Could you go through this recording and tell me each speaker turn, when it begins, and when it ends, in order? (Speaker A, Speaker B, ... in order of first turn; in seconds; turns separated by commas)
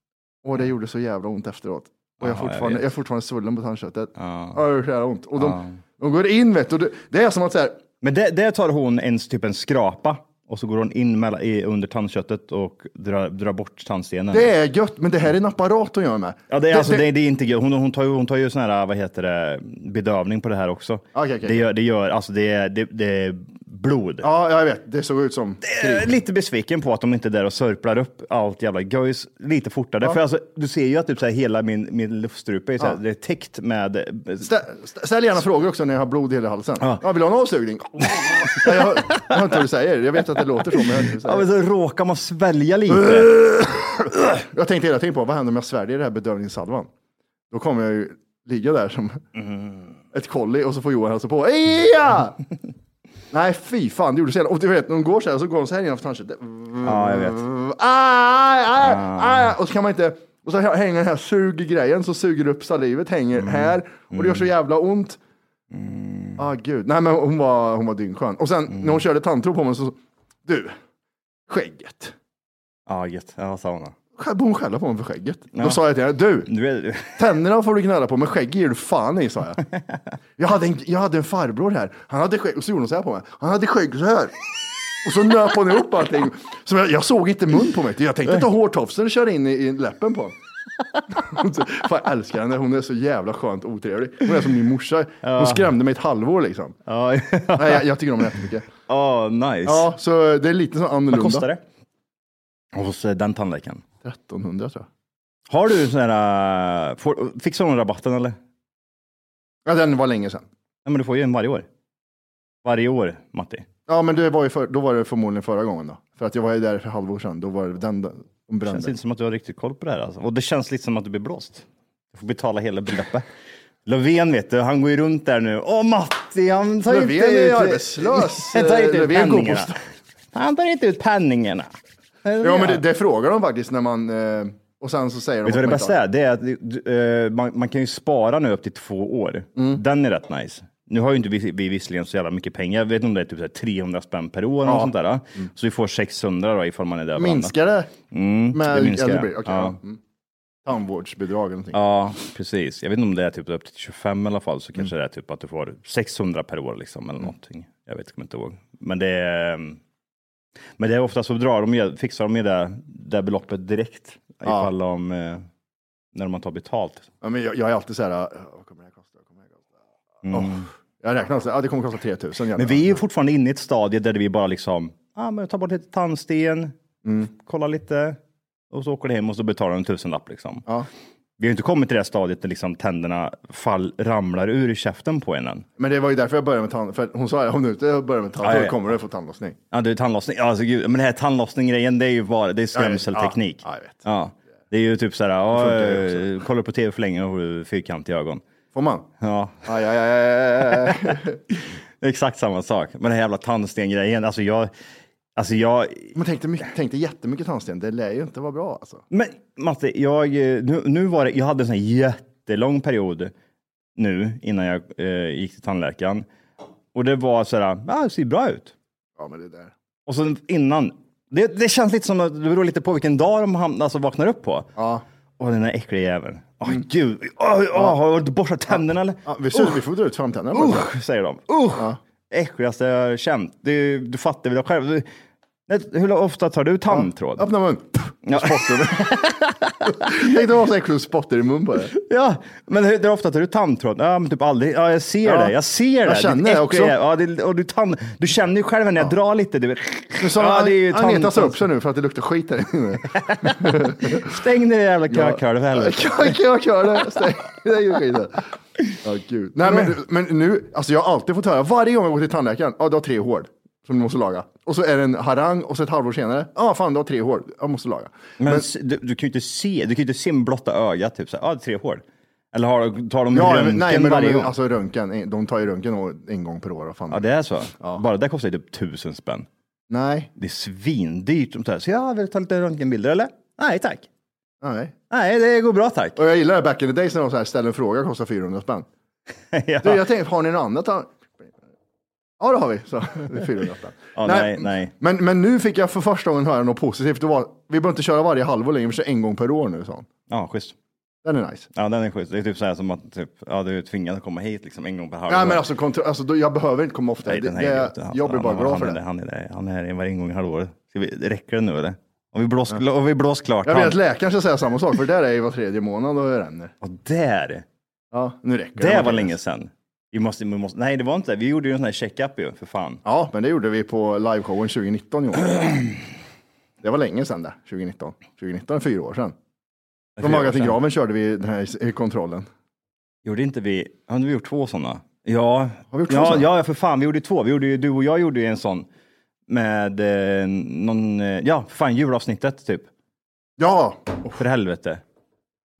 Speaker A: 0.4-7.8, Speaker B: 2.2-2.9, Speaker B: 4.2-4.6, Speaker B: 5.4-5.8, Speaker B: 8.0-14.5, Speaker A: 14.3-17.1, Speaker B: 16.5-24.3, Speaker A: 21.1-21.6, Speaker A: 24.2-26.1, Speaker B: 25.6-34.5, Speaker A: 34.4-41.5, Speaker B: 38.2-39.4, Speaker B: 40.7-43.4, Speaker A: 42.9-46.9, Speaker A: 47.5-49.2, Speaker B: 49.4-49.9, Speaker A: 50.1-52.4, Speaker A: 53.3-65.2, Speaker B: 56.8-57.4, Speaker B: 58.8-59.5, Speaker B: 63.4-64.5, Speaker B: 65.7-66.4, Speaker A: 66.4-70.8, Speaker A: 71.5-72.1, Speaker B: 72.9-73.9, Speaker A: 74.2-76.5, Speaker B: 75.5-75.8, Speaker B: 76.5-77.2, Speaker A: 77.1-79.6, Speaker A: 80.4-84.3, Speaker A: 85.0-90.3, Speaker A: 91.1-96.8, Speaker B: 95.2-95.7, Speaker B: 96.8-97.8, Speaker A: 97.5-98.7, Speaker B: 98.9-99.9, Speaker A: 99.6-101.5, Speaker B: 101.1-101.6, Speaker B: 102.7-103.8, Speaker A: 104.0-104.9, Speaker B: 105.5-108.4, Speaker A: 109.6-110.5, Speaker B: 110.8-111.7, Speaker B: 112.6-113.7, Speaker A: 113.9-118.9, Speaker B: 118.7-123.2, Speaker B: 123.8-129.7, Speaker A: 126.8-129.8, Speaker B: 130.3-131.7, Speaker B: 132.2-132.8, Speaker A: 132.4-136.0, Speaker B: 135.4-147.5, Speaker A: 139.6-139.8, Speaker A: 144.6-145.5, Speaker A: 147.2-147.9, Speaker B: 148.1-149.8, Speaker A: 148.5-150.0, Speaker A: 150.6-151.8, Speaker B: 151.7-159.8, Speaker B: 160.8-165.4, Speaker A: 164.4-164.7, Speaker B: 166.1-167.1, Speaker A: 167.2-169.7, Speaker B: 170.2-170.7, Speaker A: 170.3-173.0, Speaker B: 172.6-176.7, Speaker A: 177.0-177.3, Speaker B: 177.2-178.2, Speaker B: 178.7-180.6, Speaker B: 181.4-185.7, Speaker A: 185.8-189.6, Speaker B: 188.4-188.9, Speaker B: 189.7-198.4, Speaker A: 192.7-194.0, Speaker A: 195.5-196.3, Speaker A: 198.7-199.1, Speaker B: 199.2-199.7, Speaker A: 199.7-201.4, Speaker B: 200.8-204.7, Speaker B: 205.3-206.1, Speaker A: 206.1-209.0, Speaker B: 209.1-213.3, Speaker B: 214.0-216.2, Speaker B: 216.9-218.7, Speaker A: 219.2-219.7, Speaker B: 220.1-224.7, Speaker A: 224.8-225.0, Speaker B: 225.4-229.8, Speaker A: 228.7-230.9, Speaker B: 230.5-235.1, Speaker B: 235.7-237.5, Speaker A: 236.9-239.1, Speaker B: 238.2-240.4, Speaker A: 239.8-241.9, Speaker B: 241.9-251.6, Speaker A: 245.2-246.9, Speaker A: 250.2-254.4, Speaker B: 253.1-256.4, Speaker A: 255.1-258.4, Speaker A: 259.0-268.7, Speaker B: 268.4-274.5, Speaker A: 273.3-277.2, Speaker B: 277.1-279.5, Speaker A: 277.8-278.0, Speaker A: 279.9-280.3, Speaker B: 280.4-284.1, Speaker A: 284.6-284.9, Speaker B: 285.1-286.2, Speaker A: 286.1-288.9, Speaker B: 289.5-290.0, Speaker A: 289.8-291.6, Speaker A: 292.4-300.1, Speaker B: 294.1-294.9, Speaker B: 300.3-300.8, Speaker A: 301.2-301.7, Speaker B: 301.7-305.6, Speaker A: 305.3-309.0, Speaker B: 307.2-314.0, Speaker A: 313.6-316.7, Speaker B: 316.8-317.6, Speaker A: 318.1-319.3, Speaker B: 318.8-323.0, Speaker A: 323.0-325.9, Speaker A: 326.8-329.3, Speaker B: 330.2-330.8, Speaker A: 330.2-332.5, Speaker B: 333.2-338.9, Speaker A: 335.9-336.5, Speaker B: 339.5-342.9, Speaker A: 343.6-344.4, Speaker B: 344.4-345.0